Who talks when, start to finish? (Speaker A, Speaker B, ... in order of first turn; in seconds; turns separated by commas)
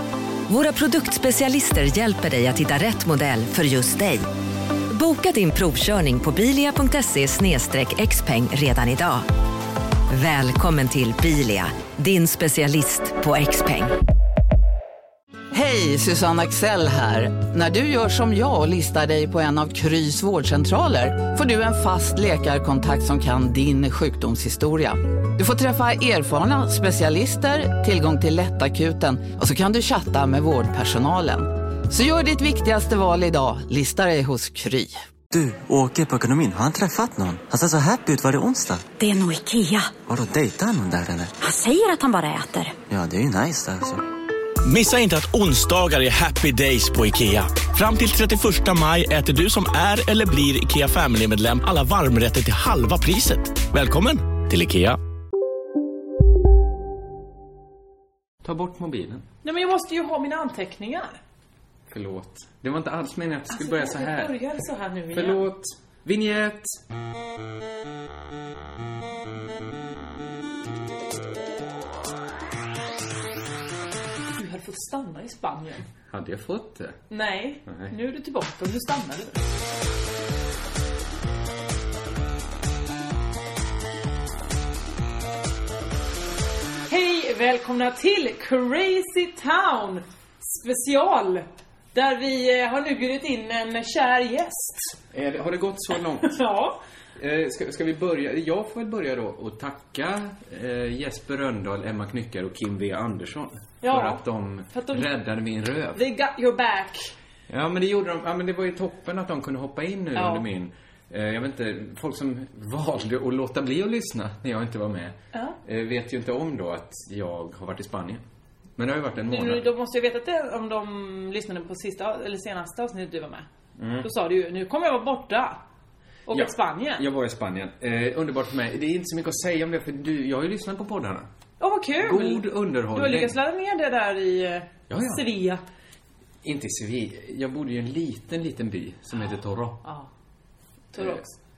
Speaker A: 0.5-4.3, Speaker A: 4.9-9.3, Speaker A: 10.1-13.9, Speaker B: 15.5-35.0, Speaker C: 35.3-38.9, Speaker D: 39.0-40.0, Speaker C: 40.0-41.4, Speaker D: 41.4-42.8, Speaker C: 42.9-44.0, Speaker E: 44.6-55.0, Speaker F: 58.4-59.3, Speaker G: 59.4-61.2, Speaker F: 61.9-64.3, Speaker G: 63.5-65.4, Speaker F: 65.1-66.8, Speaker G: 74.3-75.9, Speaker F: 76.1-77.0, Speaker G: 77.1-79.4, Speaker F: 77.7-77.9, Speaker G: 86.9-94.9, Speaker F: 95.1-96.4, Speaker G: 96.2-96.8, Speaker F: 97.2-106.0, Speaker G: 103.8-105.0, Speaker G: 106.0-107.1, Speaker F: 107.5-118.2, Speaker G: 110.2-110.4, Speaker F: 118.8-119.7, Speaker G: 119.2-123.5, Speaker F: 123.8-124.1, Speaker G: 124.0-125.6, Speaker G: 126.3-127.0, Speaker F: 126.3-131.3, Speaker G: 131.6-135.6, Speaker F: 132.0-133.3, Speaker F: 134.9-135.2, Speaker F: 136.4-139.8, Speaker G: 139.2-140.1, Speaker G: 140.9-141.3, Speaker F: 141.0-141.2